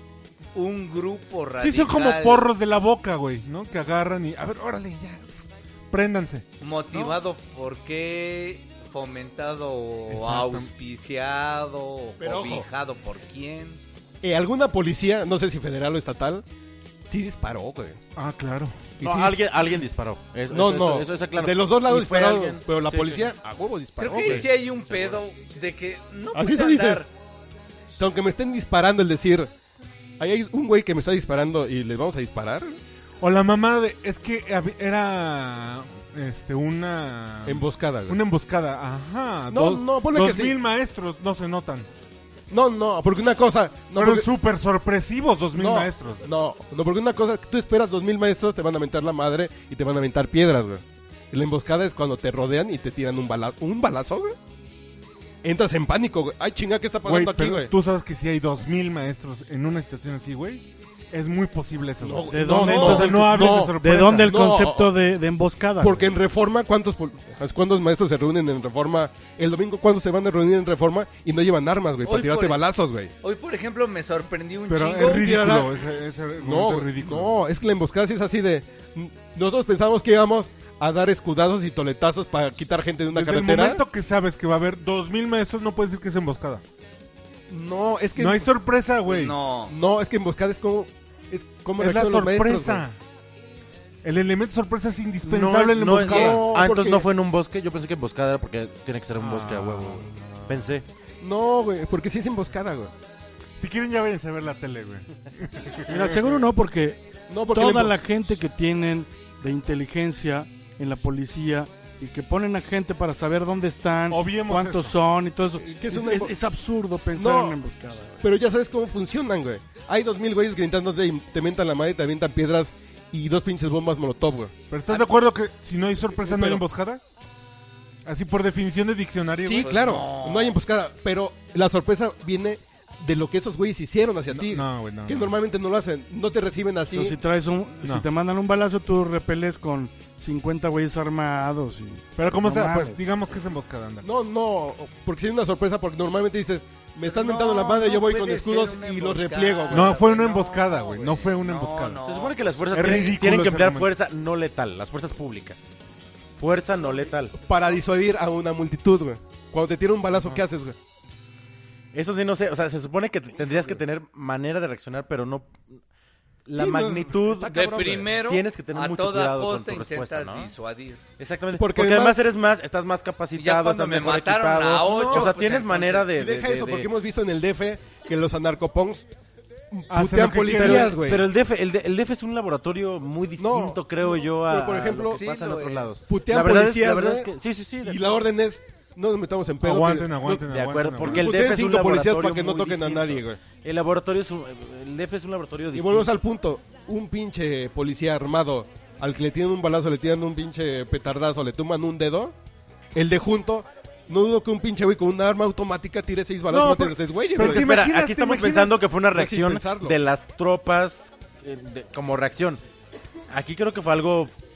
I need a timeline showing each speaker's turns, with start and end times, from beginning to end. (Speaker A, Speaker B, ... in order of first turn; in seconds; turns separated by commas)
Speaker A: 0.5-2.5, Speaker B: 1.6-6.5, Speaker A: 6.6-13.8, Speaker B: 10.1-10.7, Speaker C: 12.2-12.7, Speaker C: 14.2-18.0, Speaker B: 18.2-19.0, Speaker C: 19.0-19.4, Speaker D: 19.0-23.3, Speaker C: 20.5-24.5, Speaker A: 24.0-27.1, Speaker D: 24.1-25.2, Speaker C: 26.3-27.1, Speaker C: 27.9-29.5, Speaker C: 30.2-32.8, Speaker B: 33.2-41.9, Speaker C: 37.5-38.2, Speaker C: 39.5-40.6, Speaker C: 42.5-44.3, Speaker B: 44.0-46.3, Speaker C: 45.5-54.4, Speaker C: 55.4-57.7, Speaker B: 57.0-64.3, Speaker C: 62.0-64.9, Speaker E: 62.3-66.1, Speaker C: 65.8-73.1, Speaker A: 72.1-72.6, Speaker A: 73.2-75.3, Speaker B: 74.7-77.4, Speaker C: 75.1-75.7, Speaker C: 76.4-83.8, Speaker B: 83.1-86.6, Speaker C: 87.5-88.5, Speaker B: 88.2-89.3, Speaker A: 89.1-89.7, Speaker C: 89.7-92.8, Speaker B: 91.8-93.0, Speaker B: 94.0-96.5, Speaker D: 95.2-100.8, Speaker C: 96.0-97.1, Speaker B: 99.2-100.7, Speaker C: 101.2-102.9, Speaker B: 103.6-106.2, Speaker E: 105.9-118.3, Speaker C: 107.3-108.0, Speaker B: 114.1-115.0, Speaker C: 115.6-116.3, Speaker C: 117.2-117.6, Speaker C: 118.2-124.5, Speaker B: 124.7-127.0, Speaker C: 126.2-126.6, Speaker B: 128.1-129.9, Speaker C: 129.4-137.2, Speaker A: 129.5-130.6, Speaker B: 134.3-135.3, Speaker E: 136.9-143.0, Speaker B: 142.2-144.1, Speaker C: 144.0-150.0, Speaker A: 147.1-153.2, Speaker B: 149.7-152.0, Speaker D: 152.0-155.7, Speaker B: 152.7-153.9, Speaker D: 156.4-157.4, Speaker C: 157.3-160.8, Speaker D: 161.9-165.8, Speaker D: 166.5-167.5, Speaker C: 166.6-168.1, Speaker A: 167.5-171.0, Speaker D: 168.1-170.5, Speaker D: 171.2-176.9, Speaker C: 171.5-172.2, Speaker A: 173.3-176.1, Speaker B: 174.9-175.3, Speaker C: 176.1-179.1, Speaker C: 179.7-181.3, Speaker B: 179.9-181.0, Speaker D: 180.5-188.1, Speaker C: 183.4-185.2, Speaker A: 185.1-186.0, Speaker C: 186.1-187.3, Speaker C: 187.8-193.4, Speaker B: 189.6-191.4, Speaker D: 190.4-196.1, Speaker C: 195.7-202.3, Speaker C: 202.9-207.8, Speaker B: 206.5-208.8, Speaker D: 207.3-212.6, Speaker C: 209.1-210.0, Speaker D: 213.3-214.3